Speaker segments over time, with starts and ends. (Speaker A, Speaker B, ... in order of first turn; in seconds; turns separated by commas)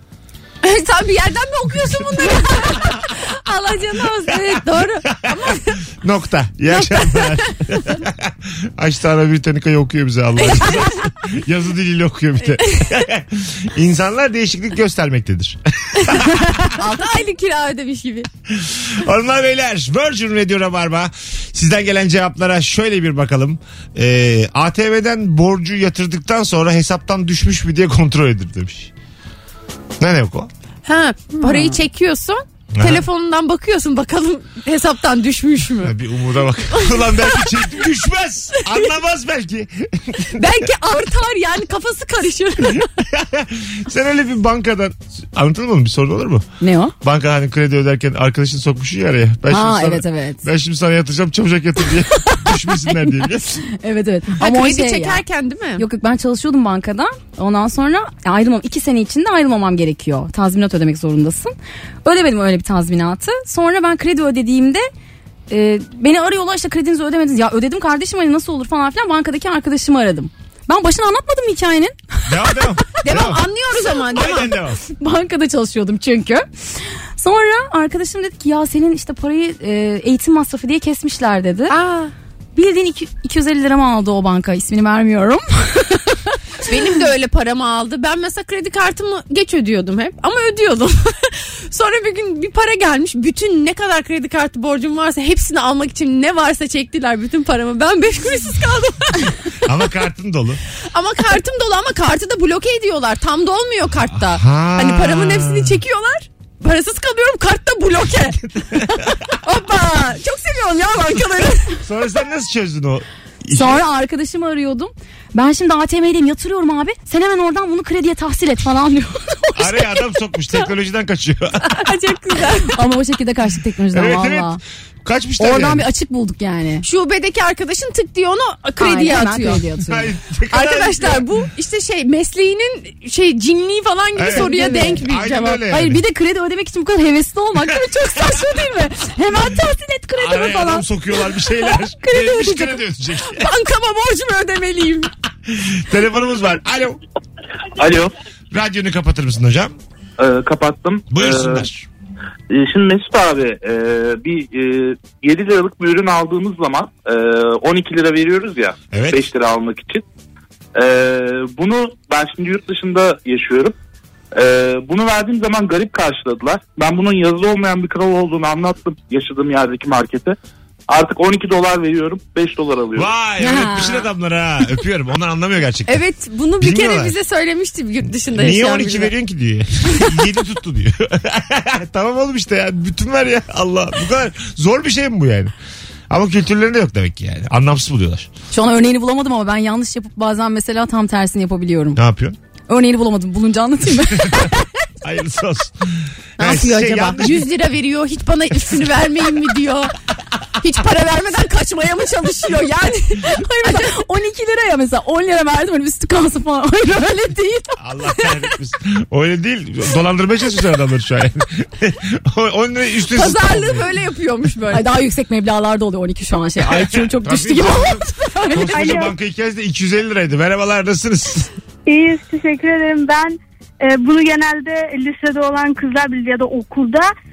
Speaker A: 0.6-5.8, Speaker B: 5.3-16.4, Speaker A: 6.7-7.4, Speaker A: 10.5-10.9, Speaker A: 12.6-13.0, Speaker A: 16.0-18.3, Speaker B: 18.5-28.9, Speaker B: 30.0-30.5, Speaker A: 30.9-36.0, Speaker C: 31.4-31.8, Speaker B: 32.7-33.0, Speaker B: 35.8-40.4, Speaker A: 36.8-37.5, Speaker A: 40.4-42.9, Speaker B: 42.7-46.5, Speaker C: 46.6-46.9, Speaker B: 47.0-53.6, Speaker C: 49.5-50.4, Speaker C: 52.7-55.2, Speaker A: 54.4-55.9, Speaker C: 55.8-64.9, Speaker C: 65.5-72.0, Speaker B: 72.3-73.5, Speaker A: 73.0-74.5, Speaker B: 74.0-74.8, Speaker C: 75.0-76.4, Speaker C: 77.2-81.8, Speaker A: 81.7-82.1, Speaker C: 82.6-86.3, Speaker A: 86.7-99.3, Speaker B: 99.6-100.6, Speaker A: 100.9-111.8, Speaker B: 104.1-105.8, Speaker B: 111.8-113.8, Speaker C: 113.5-120.0, Speaker B: 119.6-121.8, Speaker A: 121.7-122.8, Speaker C: 122.6-124.6, Speaker B: 123.9-125.9, Speaker C: 125.4-126.8, Speaker A: 126.8-129.7, Speaker C: 128.8-130.1, Speaker B: 129.9-131.3, Speaker A: 130.5-135.6, Speaker B: 134.2-136.0, Speaker C: 134.3-135.0, Speaker C: 135.7-140.9, Speaker B: 140.2-143.5, Speaker C: 141.7-142.8, Speaker A: 143.2-145.1, Speaker B: 145.5-147.0, Speaker D: 147.8-148.1, Speaker B: 148.5-149.8, Speaker D: 150.2-151.6, Speaker B: 151.1-151.9, Speaker D: 152.5-160.0, Speaker B: 158.9-159.2, Speaker D: 160.8-163.8, Speaker D: 164.3-170.4, Speaker D: 170.9-173.1, Speaker B: 172.9-176.0, Speaker C: 173.4-174.1, Speaker A: 175.9-179.1, Speaker B: 176.6-177.2, Speaker B: 178.3-185.5, Speaker B: 186.1-188.3, Speaker C: 188.5-192.0, Speaker B: 192.0-192.4, Speaker C: 192.7-194.6, Speaker B: 194.0-194.5, Speaker B: 195.0-197.5, Speaker A: 196.4-199.9, Speaker A: 200.6-204.1, Speaker C: 203.6-207.8, Speaker B: 207.8-213.9, Speaker A: 213.1-214.9, Speaker C: 214.7-218.7, Speaker B: 216.6-221.5, Speaker E: 218.7-219.1, Speaker E: 221.9-227.1